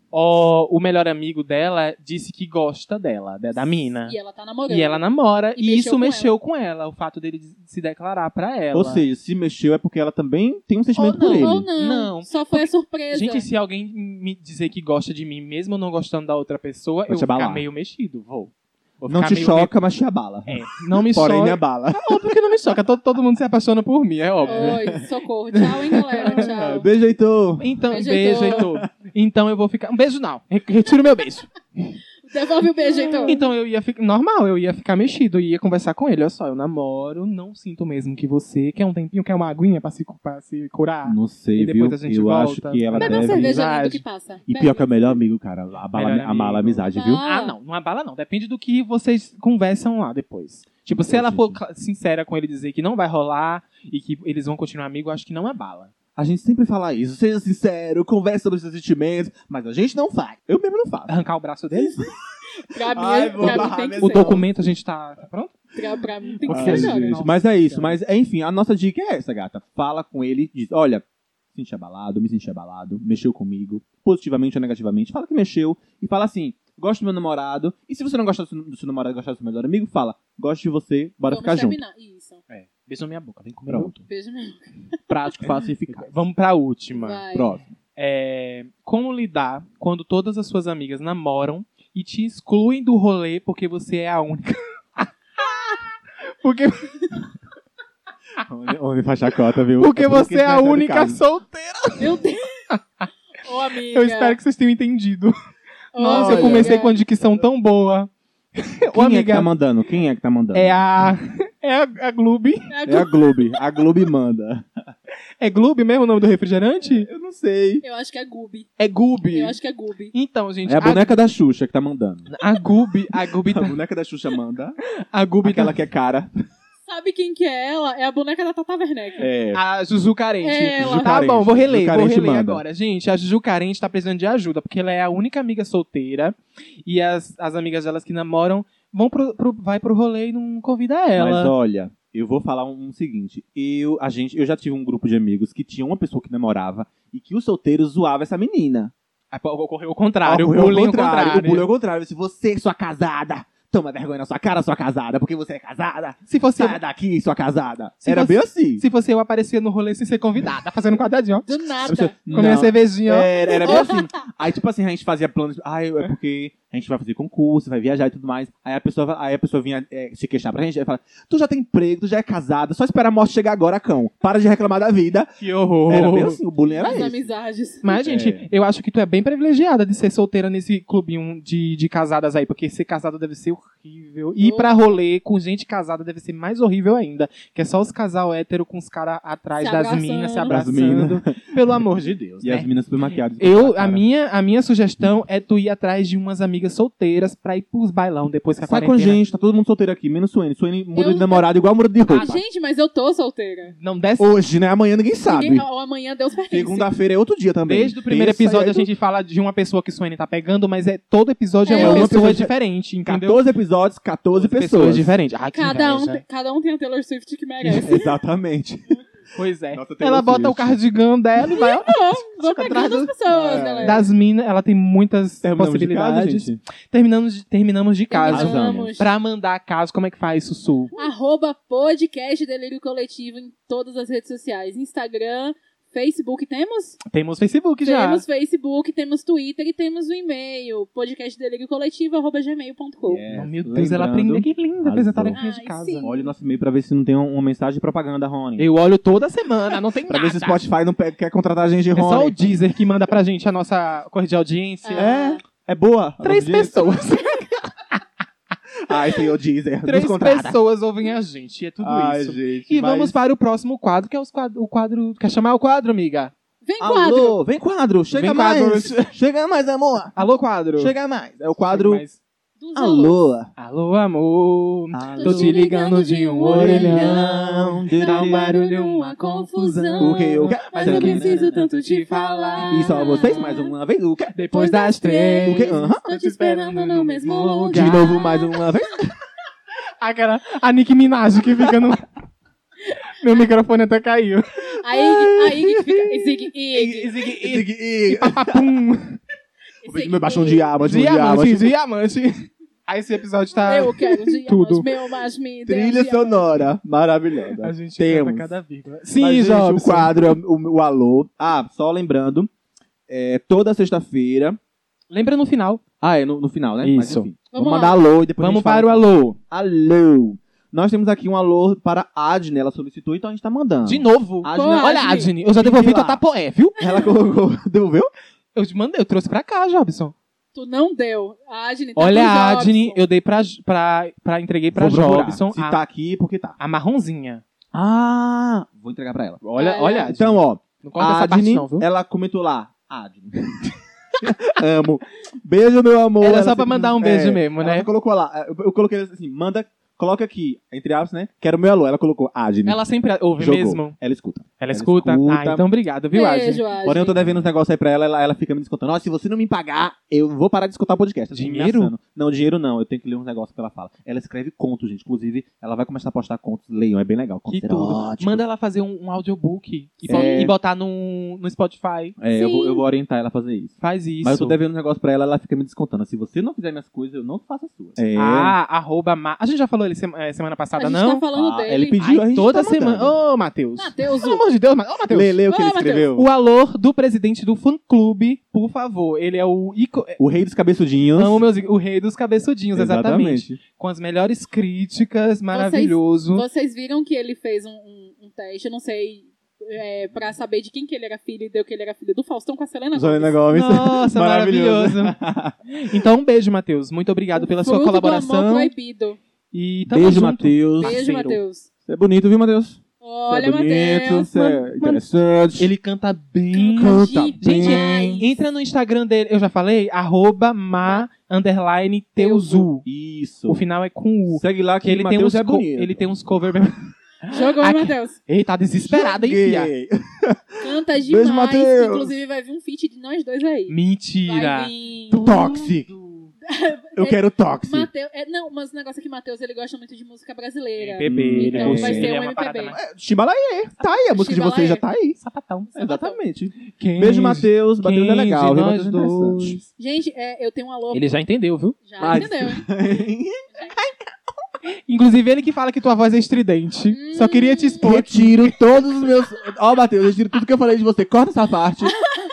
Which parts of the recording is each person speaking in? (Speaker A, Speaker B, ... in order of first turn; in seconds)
Speaker A: 0.1-4.2, 4.7-9.0, 10.9-19.7, 20.5-24.9, 25.6-26.7, 27.6-31.9, 33.2-44.0, 45.9-55.9, 61.1-62.0, 63.4-65.7, 66.3-68.0, 82.5-84.0, 85.9-87.2, 88.0-95.9, 96.4-97.3, 99.8-103.1, 103.9-105.3, 106.0-109.5, 110.5-112.7, 115.4-117.1, 118.8-119.5, 120.1-121.2, 122.3-123.8, 125.0-125.8, 129.5-141.5, 149.3-151.6, 156.3-156.8, 158.0-163.8, 175.4-176.4, 177.8-192.7, 193.4-199.2, 202.2-202.4, 203.7-204.3, 207.7-213.4, 214.3-216.2, 219.3-231.0, 237.1-238.2, 243.3-246.1, 248.6-250.6, 251.9-255.2, 256.2-257.9, 259.8-266.3, 268.1-269.1, 270.1-270.9, 271.6-272.2, 273.6-283.5, 284.3-288.2, 290.0-292.1, 293.2-294.8, 295.6-299.2, 300.8-304.9, 307.6-310.2, 315.1-315.8, 316.8-317.3, 318.4-319.4, 323.8-326.8, 328.6-330.1, 331.9-335.8, 336.6-337.4, 339.4-341.9, 346.2-347.9, 352.6-354.0, 354.6-356.6, 361.3-361.9, 367.5-372.2, 373.8-374.6, 378.1-381.2, 382.0-385.3, 386.1-390.2, 391.1-396.4, 403.5-405.2, 405.7-408.7, 409.5-411.4, 414.8-415.0, 415.6-422.9, 423.5-429.7, 433.7-434.7, 435.3-436.3, 440.8-442.8, 445.2-445.7, 446.8-449.7, 450.9-452.2, 454.9-458.5
Speaker B: 3.6-5.0, 5.6-6.3, 11.1-13.4, 24.4-26.9, 27.9-28.6, 32.2-33.4, 43.0-45.2, 46.9-47.5, 62.6-64.4, 65.7-67.2, 81.3-82.4, 84.0-85.0, 87.0-87.5, 102.0-102.7, 103.4-104.4, 105.9-107.0, 112.7-113.3, 117.8-118.7, 119.3-120.1, 126.9-129.3, 130.4-131.2, 161.4-162.5, 163.6-164.0, 176.7-178.0, 184.4-184.9, 189.6-190.5, 200.9-203.7, 205.2-206.9, 211.7-212.2, 215.5-218.1, 221.5-224.0, 228.1-229.1, 230.9-237.0, 237.8-243.2, 245.3-246.3, 254.8-255.4, 266.6-267.4, 272.6-273.2, 275.1-283.7, 284.5-288.6, 294.8-297.1, 299.8-300.7, 303.6-306.4, 317.5-318.0, 324.5-325.3, 326.8-327.1, 330.5-333.0, 339.6-340.1, 356.1-357.2, 370.0-370.5, 372.3-372.8, 380.8-382.5, 383.8-384.4, 385.5-386.1, 395.5-403.4, 407.4-409.2, 410.8-411.7, 413.0-414.6, 416.5-418.3, 422.2-422.7, 427.3-428.2, 430.6-433.7, 434.2-435.3, 436.4-442.8, 443.8-444.9, 445.7-446.2, 449.8-451.0, 451.8-452.7, 456.9-457.9
Speaker C: 8.7-11.7, 17.1-17.6, 19.1-22.0, 24.4-24.9, 26.3-27.7, 28.5-28.9, 33.1-33.4, 41.0-43.6, 44.5-47.2, 51.1-51.6, 56.1-61.2, 62.9-64.5, 66.5-81.8, 83.7-83.9, 85.1-86.2, 87.3-87.7, 98.4-101.2, 106.1-106.8, 108.9-110.8, 112.8-114.7, 116.8-117.8, 120.7-122.3, 123.4-124.8, 125.4-126.3, 129.2-129.6, 130.8-132.6, 141.2-148.9, 150.2-158.8, 161.8-175.3, 175.9-177.3, 178.0-178.5, 190.5-191.3, 192.4-194.0, 198.6-202.3, 204.2-205.7, 206.5-208.9, 211.7-212.5, 213.1-215.1, 217.8-219.0, 219.7-220.8, 223.2-224.1, 225.4-226.6, 228.3-228.9, 243.0-245.4, 246.0-248.7, 250.1-252.4, 254.9-257.0, 258.9-260.6, 261.8-263.1, 266.8-270.1, 270.8-272.0, 272.7-273.5, 274.9-275.6, 276.5-278.6, 280.0-281.5, 282.7-284.4, 285.4-286.0, 287.7-289.1, 296.8-298.7, 299.8-301.7, 305.6-308.5, 309.1-312.5, 313.1-314.6, 316.0-326.2, 326.8-328.1, 334.7-336.6, 337.7-339.4, 340.0-352.8, 353.4-355.6, 356.8-368.4, 370.1-370.5, 372.2-378.5, 381.3-383.1, 385.1-386.3, 390.2-391.4, 392.7-393.6, 402.9-405.6, 409.9-411.0, 411.9-415.7, 416.7-418.3, 422.8-423.6, 424.3-426.0, 428.8-432.2, 435.1-435.9, 436.9-437.9, 441.0-442.1, 442.7-445.2, 445.8-449.6, 452.0-453.4, 457.8-462.0